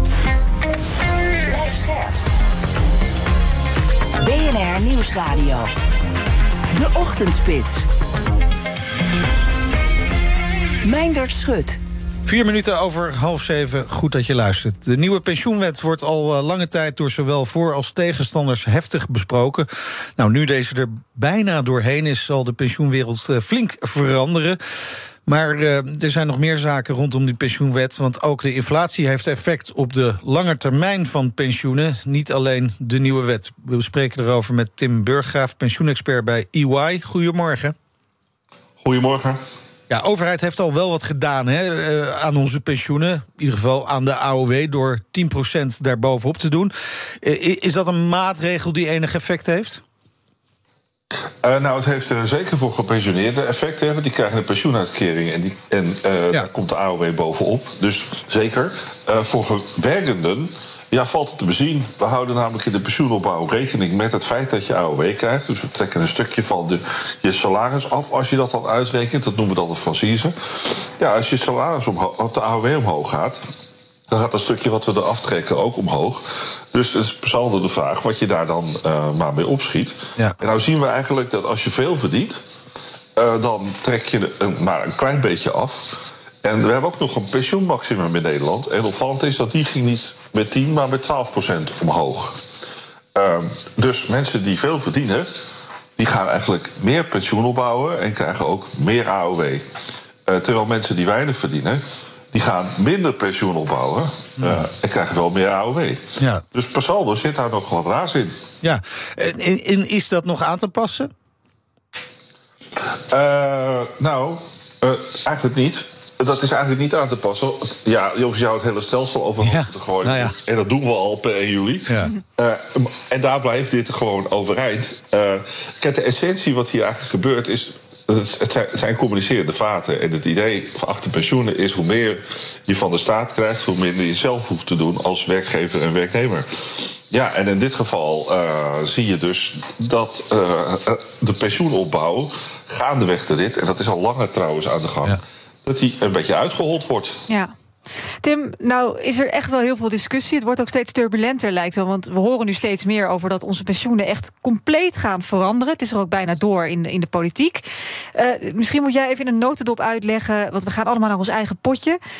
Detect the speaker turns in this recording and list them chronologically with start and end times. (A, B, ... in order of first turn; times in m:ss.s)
0:01.4-0:02.2 A
0:04.2-0:05.7 A
0:06.7-0:07.8 A
0:10.8-0:11.8 A
0:12.2-0:24.6 B
0:25.2-0:37.7 B
0:38.8-0:39.4 C
0:39.9-0:49.8 B
0:51.4-1:10.3 C
1:11.0-1:13.4 C
1:14.1-1:22.4 C
1:23.2-1:32.4 C
1:33.1-1:35.3 C
1:36.0-1:39.6 C
1:40.3-1:41.8 C
1:42.3-1:48.3 C
1:44.4-1:44.6 B
1:46.2-1:46.4 B
1:48.6-1:51.1 B
1:53.1-2:16.5 C
1:59.4-2:00.3 B
2:17.1-2:27.2 C
2:27.3-2:37.6 D
2:38.1-2:42.0 D